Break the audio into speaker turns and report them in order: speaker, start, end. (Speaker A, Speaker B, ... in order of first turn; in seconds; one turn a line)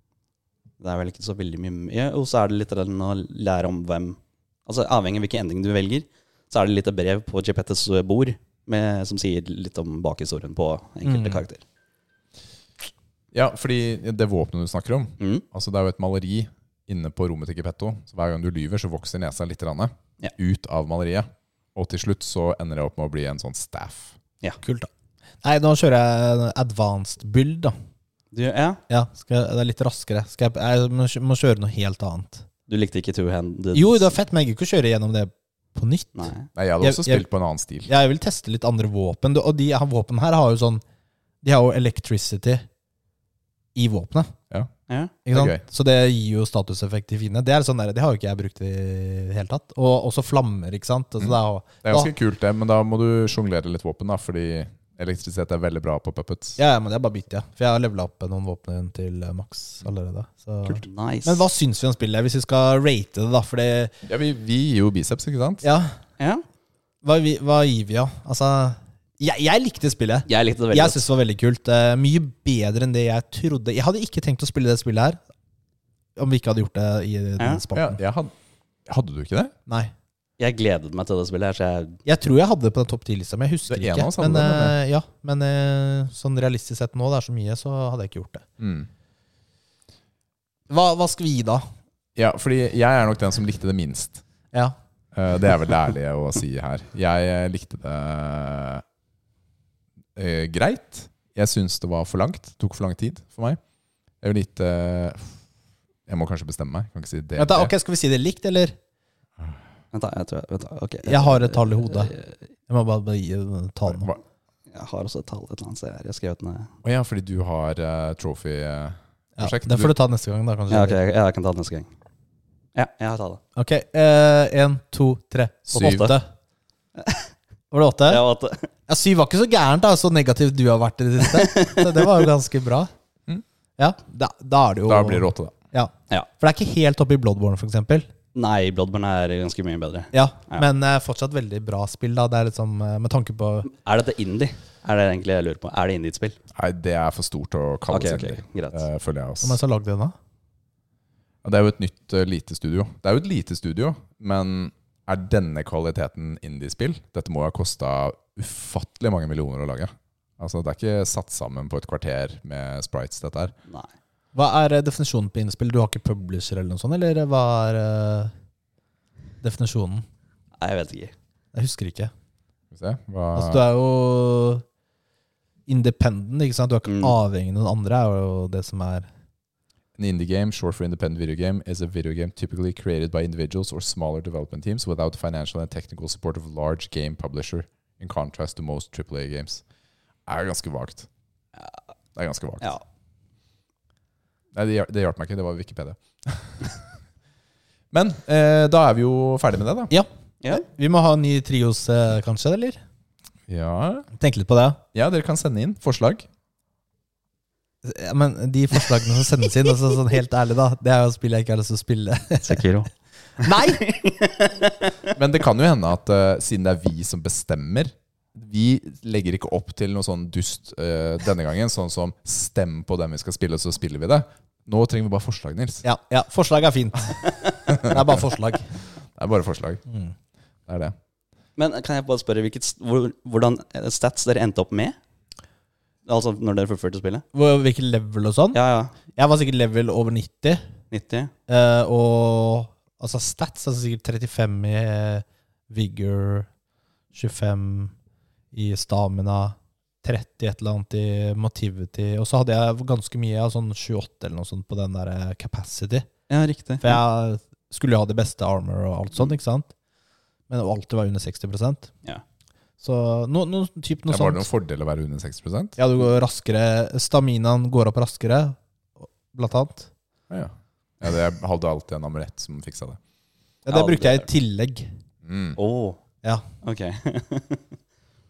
Speaker A: 0.8-11.6
Speaker B: 11.0-11.4
Speaker C: 13.3-24.1
Speaker B: 24.6-24.9
Speaker B: 25.4-27.8
Speaker A: 28.3-28.8
Speaker B: 28.9-32.5
Speaker A: 32.7-34.1
Speaker B: 33.7-37.3
Speaker A: 36.1-36.5
Speaker C: 36.5-37.9
Speaker B: 37.9-40.8
Speaker B: 41.4-42.7
Speaker B: 43.8-44.3
Speaker A: 44.9-45.1
Speaker B: 45.3-52.1
Speaker C: 45.3-45.6
Speaker C: 51.2-56.6
Speaker B: 56.6-63.9
Speaker A: 60.8-61.4
Speaker C: 64.1-65.7
Speaker B: 65.6-65.9
Speaker A: 66.2-66.4
Speaker B: 67.0-75.2
Speaker A: 70.3-71.0
Speaker B: 76.2-78.0
Speaker C: 77.8-78.3
Speaker C: 78.9-79.5
Speaker B: 79.7-79.9
Speaker A: 80.4-82.0
Speaker B: 82.1-88.5
Speaker C: 83.7-84.8
Speaker C: 88.6-88.9
Speaker B: 90.7-91.7
Speaker C: 92.2-94.2
Speaker C: 95.1-98.8
Speaker C: 100.2-103.6
Speaker C: 104.2-105.4
Speaker C: 106.1-107.7
Speaker B: 107.4-108.8
Speaker A: 109.9-112.3
Speaker B: 111.0-112.1
Speaker B: 112.7-114.1
Speaker C: 113.9-114.2
Speaker A: 114.7-116.7
Speaker C: 116.8-119.9
Speaker B: 119.4-121.0
Speaker A: 120.7-121.9
Speaker A: 122.8-123.4
Speaker B: 123.6-126.3
Speaker C: 125.7-126.1
Speaker A: 125.8-126.2
Speaker A: 127.0-127.3
Speaker B: 127.7-128.2
Speaker A: 128.1-128.7
Speaker B: 128.9-132.9
Speaker A: 131.2-132.2
Speaker B: 133.8-138.1
Speaker C: 134.9-135.5
Speaker A: 138.3-140.6
Speaker B: 140.1-143.7
Speaker A: 143.7-146.4
Speaker C: 146.5-149.6
Speaker A: 147.9-148.8
Speaker B: 149.4-150.2
Speaker C: 151.4-163.5
Speaker B: 164.3-168.3
Speaker B: 169.4-170.1
Speaker A: 170.6-171.1
Speaker B: 171.5-172.1
Speaker C: 172.7-173.7
Speaker B: 173.3-174.6
Speaker B: 175.7-179.1
Speaker A: 176.9-177.2
Speaker C: 180.0-189.6
Speaker C: 190.3-191.1
Speaker C: 192.2-192.8
Speaker C: 194.5-196.8
Speaker C: 197.9-199.9
Speaker B: 199.9-202.8
Speaker C: 203.5-204.1
Speaker B: 204.2-204.8
Speaker C: 204.9-206.3
Speaker B: 207.8-212.6
Speaker A: 212.4-212.9
Speaker B: 213.4-213.8
Speaker A: 213.4-215.1
Speaker C: 215.1-225.8
Speaker B: 225.8-228.7
Speaker C: 227.7-228.2
Speaker C: 229.2-229.8
Speaker B: 229.9-230.1
Speaker C: 230.7-230.9
Speaker A: 231.6-235.0
Speaker A: 236.1-237.2
Speaker B: 237.3-238.6
Speaker A: 238.5-238.9
Speaker B: 239.2-240.6
Speaker A: 240.9-241.3
Speaker B: 241.5-246.5
Speaker B: 247.1-247.9
Speaker B: 248.5-256.1
Speaker A: 256.3-257.0
Speaker B: 256.8-259.7
Speaker B: 260.5-261.9
Speaker B: 262.8-264.5
Speaker C: 264.1-265.8
Speaker B: 265.8-269.9
Speaker C: 270.3-273.0
Speaker B: 273.7-274.9
Speaker A: 273.7-274.3
Speaker C: 275.2-275.6
Speaker A: 275.6-276.0
Speaker A: 276.6-277.6